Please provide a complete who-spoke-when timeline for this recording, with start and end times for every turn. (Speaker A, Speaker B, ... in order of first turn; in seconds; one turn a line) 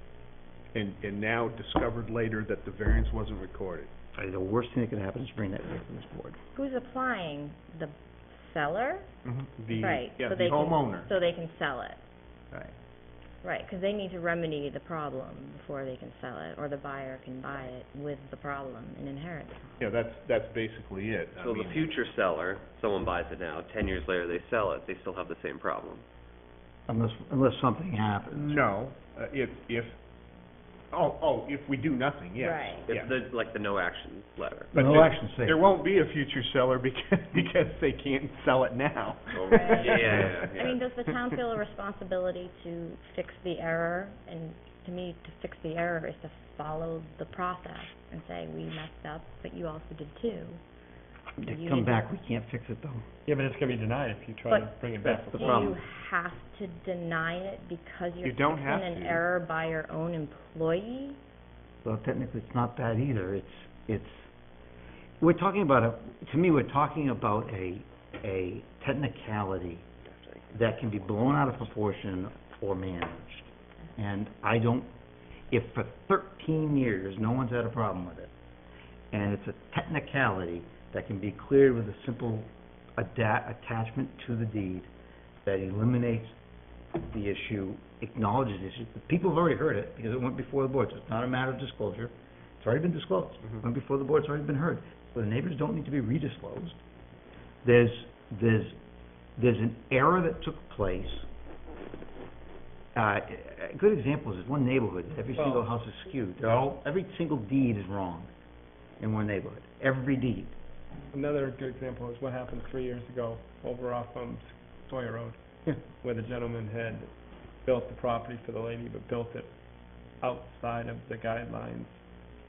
Speaker A: 0.7-3.9
Speaker B: 4.2-6.4
Speaker C: 6.5-9.1
Speaker A: 9.2-11.1
Speaker C: 9.7-12.0
Speaker C: 13.4-19.9
Speaker A: 19.8-22.0
Speaker D: 21.4-26.0
Speaker B: 26.9-28.6
Speaker A: 28.4-30.0
Speaker A: 30.9-33.1
Speaker C: 32.4-32.9
Speaker D: 32.9-34.7
Speaker B: 34.7-35.6
Speaker A: 34.7-40.8
Speaker D: 39.3-40.7
Speaker C: 39.5-50.6
Speaker B: 51.4-53.0
Speaker C: 51.4-52.1
Speaker E: 53.3-55.8
Speaker C: 54.5-54.8
Speaker B: 55.0-55.8
Speaker C: 55.3-61.2
Speaker A: 58.2-59.2
Speaker B: 61.8-64.3
Speaker B: 65.2-69.9
Speaker D: 70.0-71.5
Speaker B: 70.5-74.9
Speaker B: 75.5-78.3
Speaker B: 79.1-84.9
Speaker B: 85.5-86.4
Speaker B: 87.0-96.8
Speaker B: 97.6-98.8
Speaker B: 99.4-101.3
Speaker B: 103.0-108.3
Speaker E: 105.4-105.7
Speaker B: 109.0-110.6
Speaker E: 111.1-115.4
Speaker E: 115.9-117.1
Speaker E: 117.7-119.5
Speaker E: 120.2-122.0